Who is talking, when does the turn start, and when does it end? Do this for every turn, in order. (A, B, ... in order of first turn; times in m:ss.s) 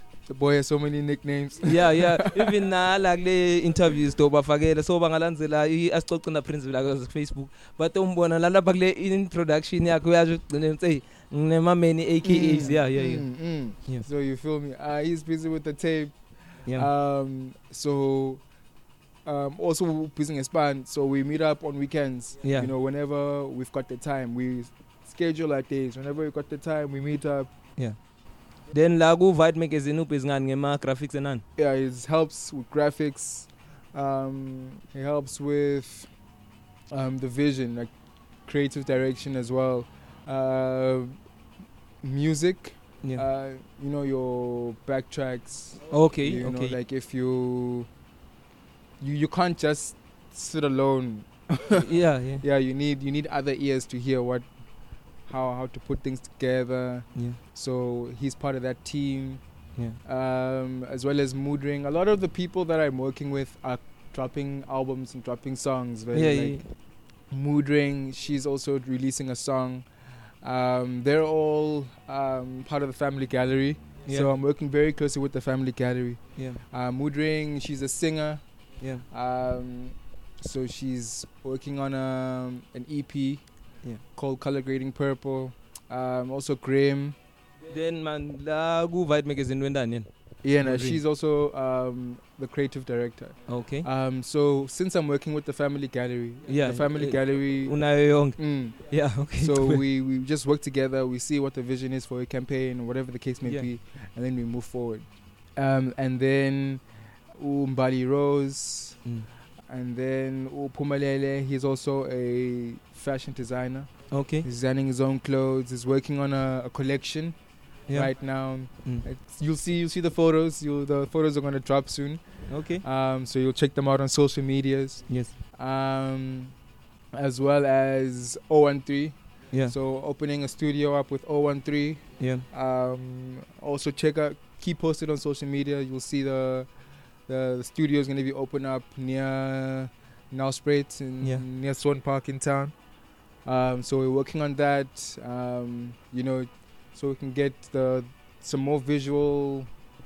0:00.3-0:02.6 A
0:01.6-0:14.0 B
0:12.2-0:16.1 A
0:16.7-0:18.4 A
0:19.2-0:27.5 A
0:22.4-0:22.7 B
0:28.7-0:31.4 B
0:31.6-0:36.1 A
0:36.9-0:37.9 A
0:38.4-0:41.1 A
0:42.0-0:47.9 A
0:45.9-0:46.8 B
0:49.0-0:51.9 A
0:51.7-0:52.4 B
0:52.4-0:54.5 A
0:55.2-0:59.4 A
1:00.0-1:06.6 A
1:06.1-1:06.6 B
1:07.3-1:09.9 A
1:10.4-1:18.4 A
1:14.0-1:14.3 B
1:19.1-1:23.4 A
1:24.1-1:27.2 A
1:27.7-1:30.1 B
1:30.4-1:37.8 A
1:30.6-1:31.0 B
1:33.5-1:33.9 B
1:36.5-1:39.8 B
1:38.4-1:49.0 A
1:49.6-1:53.9 A
1:54.1-1:54.5 B
1:54.4-1:57.3 A
1:57.9-1:58.1 B
1:57.9-2:02.2 A
2:02.5-2:02.8 B
2:02.8-2:06.5 A
2:05.1-2:05.3 B
2:07.1-2:16.7 A
2:12.2-2:12.4 B
2:17.3-2:22.7 A
2:23.4-2:29.7 A